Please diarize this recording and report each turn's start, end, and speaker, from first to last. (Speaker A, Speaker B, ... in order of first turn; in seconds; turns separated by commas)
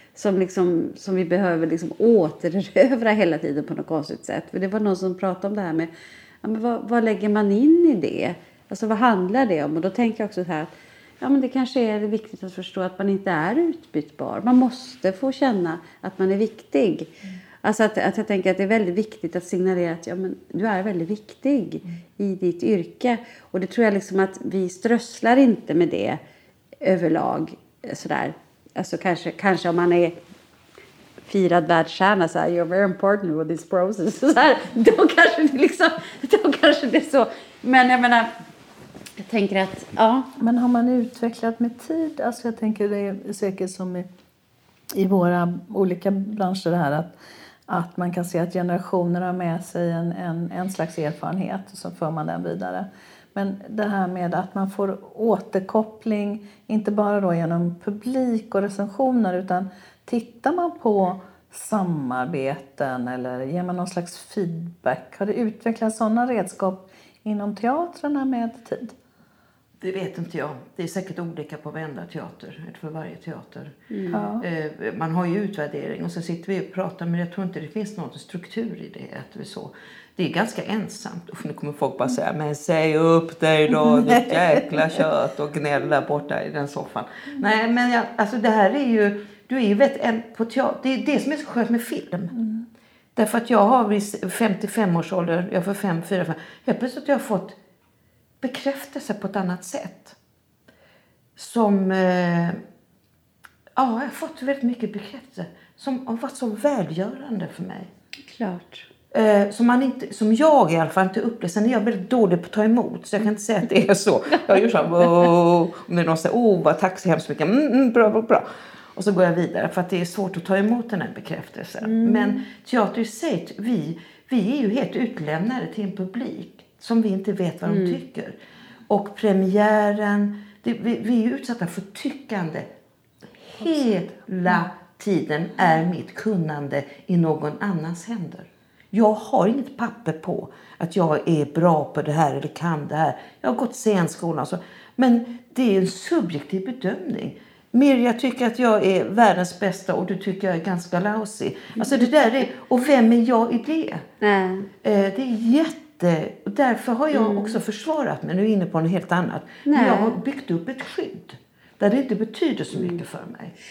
Speaker A: 0.1-5.9, Speaker A: 6.4-26.2, Speaker A: 26.8-30.2, Speaker A: 31.2-38.3, Speaker A: 39.2-40.3, Speaker B: 40.4-44.1, Speaker B: 44.9-47.1, Speaker B: 47.7-69.0, Speaker C: 69.8-73.8, Speaker A: 73.9-74.2, Speaker B: 74.1-74.4, Speaker C: 74.4-92.3, Speaker A: 83.9-84.3, Speaker B: 92.4-92.7, Speaker C: 93.2-97.6, Speaker C: 98.4-100.2, Speaker C: 101.3-102.6, Speaker C: 103.8-107.9, Speaker A: 108.2-108.9, Speaker C: 109.1-128.3, Speaker A: 121.8-122.4, Speaker A: 127.6-128.0, Speaker C: 128.9-132.7, Speaker C: 133.4-154.0, Speaker A: 154.2-154.7, Speaker C: 154.8-163.5, Speaker A: 157.1-157.6, Speaker A: 159.7-160.2, Speaker A: 162.7-163.0